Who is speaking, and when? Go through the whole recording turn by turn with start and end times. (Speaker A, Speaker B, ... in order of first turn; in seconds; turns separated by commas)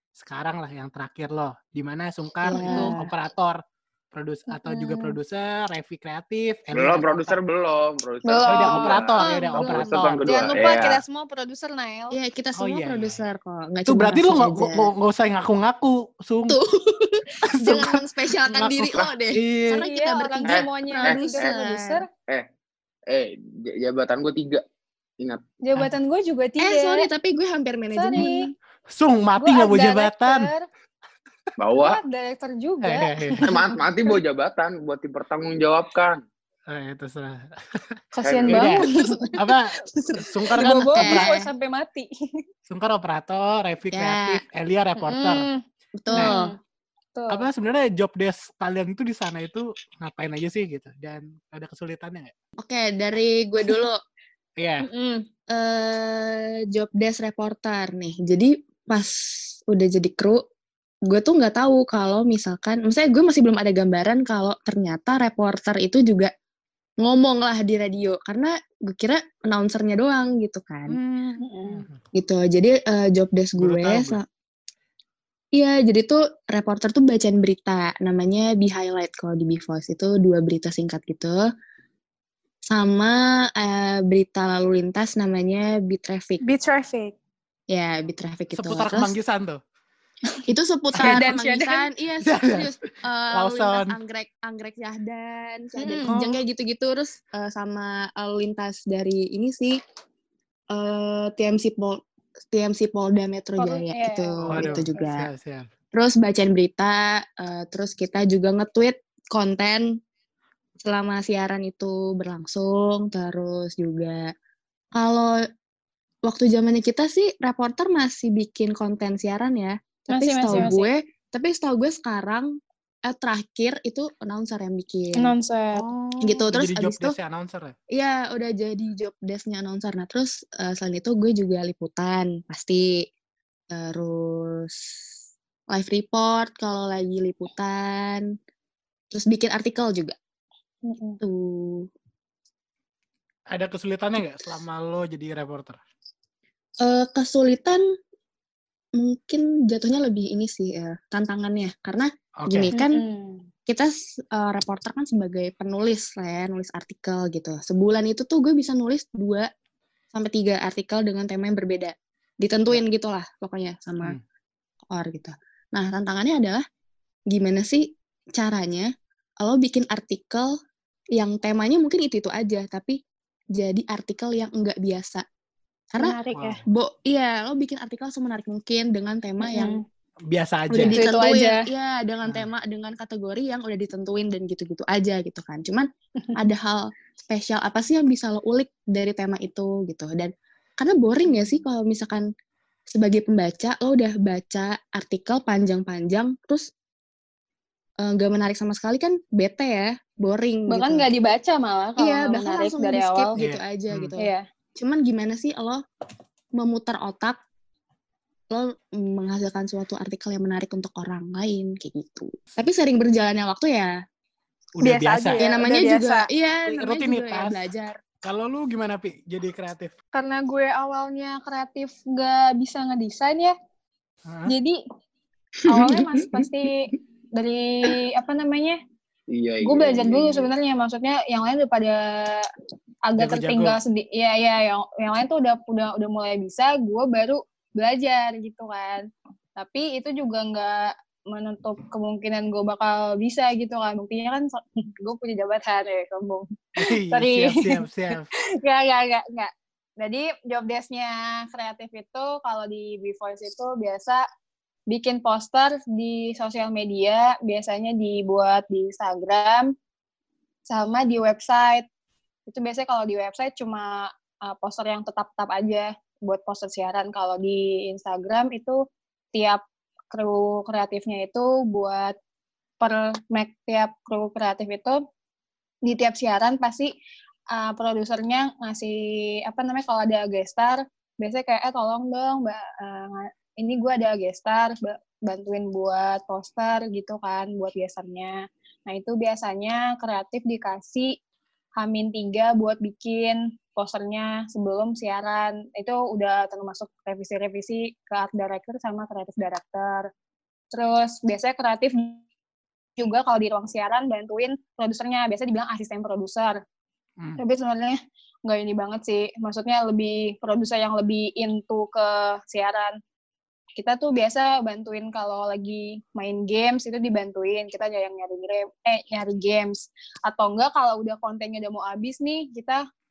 Speaker A: 0.2-7.4, Speaker B: 2.4-3.1, Speaker C: 2.6-2.9, Speaker C: 4.5-5.2, Speaker D: 6.7-11.0, Speaker C: 8.2-12.2, Speaker A: 8.4-10.6, Speaker B: 12.1-14.9, Speaker A: 12.6-13.2, Speaker A: 13.8-16.6, Speaker B: 16.5-22.0, Speaker A: 17.5-19.8, Speaker C: 19.8-22.0, Speaker D: 20.4-21.6, Speaker D: 23.1-24.6, Speaker C: 25.6-27.1, Speaker B: 26.6-28.5, Speaker C: 27.9-28.4, Speaker A: 28.9-30.5, Speaker C: 29.4-30.7, Speaker D: 31.6-32.0, Speaker C: 31.8-34.2, Speaker A: 32.8-33.5, Speaker D: 33.4-36.2, Speaker A: 36.7-37.9, Speaker C: 38.1-39.3, Speaker D: 38.2-38.8, Speaker A: 38.5-41.3, Speaker C: 40.5-42.1, Speaker B: 41.0-41.5, Speaker A: 42.7-45.5, Speaker B: 43.9-44.4, Speaker C: 45.0-46.6, Speaker B: 46.0-46.5, Speaker C: 47.1-47.4, Speaker A: 47.3-52.3, Speaker B: 52.6-54.0, Speaker A: 54.6-54.9, Speaker C: 54.8-55.3, Speaker B: 55.5-59.1, Speaker B: 59.7-60.4, Speaker B: 61.0-66.3, Speaker B: 67.0-71.0, Speaker A: 70.9-72.0, Speaker C: 71.4-71.8, Speaker B: 72.1-74.2, Speaker A: 73.6-74.2, Speaker B: 75.5-81.5, Speaker B: 82.7-86.4, Speaker C: 86.4-87.1, Speaker B: 87.7-89.1, Speaker A: 88.5-89.6, Speaker B: 90.5-99.8, Speaker C: 90.9-91.9, Speaker A: 92.2-92.8, Speaker A: 93.3-94.0, Speaker C: 95.8-96.3, Speaker A: 96.0-96.3, Speaker B: 100.7-105.3, Speaker C: 103.6-105.0, Speaker A: 104.5-105.7, Speaker B: 105.9-109.9, Speaker B: 110.8-114.3, Speaker B: 114.9-115.4, Speaker B: 116.2-122.5, Speaker C: 120.1-120.9, Speaker A: 120.5-120.7, Speaker B: 123.0-125.3, Speaker C: 125.2-125.9, Speaker A: 125.7-127.8, Speaker B: 126.2-127.2, Speaker B: 127.9-133.1, Speaker B: 133.7-135.1, Speaker B: 135.7-138.3, Speaker B: 139.1-140.2, Speaker C: 140.8-141.2, Speaker B: 141.2-141.9, Speaker A: 143.5-145.8, Speaker B: 146.8-147.8, Speaker B: 148.9-153.0, Speaker A: 152.4-152.7, Speaker C: 152.7-153.5, Speaker B: 153.7-159.5, Speaker B: 160.1-164.2, Speaker B: 164.9-166.6, Speaker B: 167.3-168.9, Speaker B: 169.4-170.5, Speaker B: 171.1-172.9, Speaker B: 173.6-175.2, Speaker B: 175.9-179.8, Speaker C: 176.0-176.6, Speaker A: 176.3-176.6, Speaker C: 179.4-179.8, Speaker A: 180.3-181.0, Speaker B: 180.7-192.2, Speaker C: 180.9-181.7, Speaker C: 191.2-191.5, Speaker B: 192.9-196.7, Speaker B: 198.0-201.1, Speaker C: 200.7-203.3, Speaker B: 202.0-205.8, Speaker A: 203.4-204.1, Speaker C: 204.2-204.4, Speaker B: 206.6-207.4, Speaker B: 208.5-213.9, Speaker A: 214.8-215.4, Speaker C: 214.8-216.3, Speaker B: 215.4-218.0, Speaker A: 216.7-217.6, Speaker A: 218.2-219.9, Speaker C: 220.1-223.5, Speaker A: 224.2-224.5, Speaker C: 224.5-224.8, Speaker C: 225.7-228.8, Speaker B: 225.7-226.1, Speaker D: 229.3-230.5, Speaker C: 229.6-232.5, Speaker C: 233.1-247.8, Speaker A: 233.2-233.8, Speaker A: 246.8-248.3, Speaker C: 248.6-254.2, Speaker C: 254.9-259.7, Speaker C: 260.7-261.9, Speaker C: 262.5-268.8, Speaker C: 269.3-272.1, Speaker C: 272.8-275.0, Speaker C: 275.8-276.9, Speaker C: 277.5-291.2, Speaker C: 291.8-300.1, Speaker C: 300.7-302.2, Speaker C: 303.0-306.6, Speaker C: 307.4-313.0, Speaker C: 313.8-322.8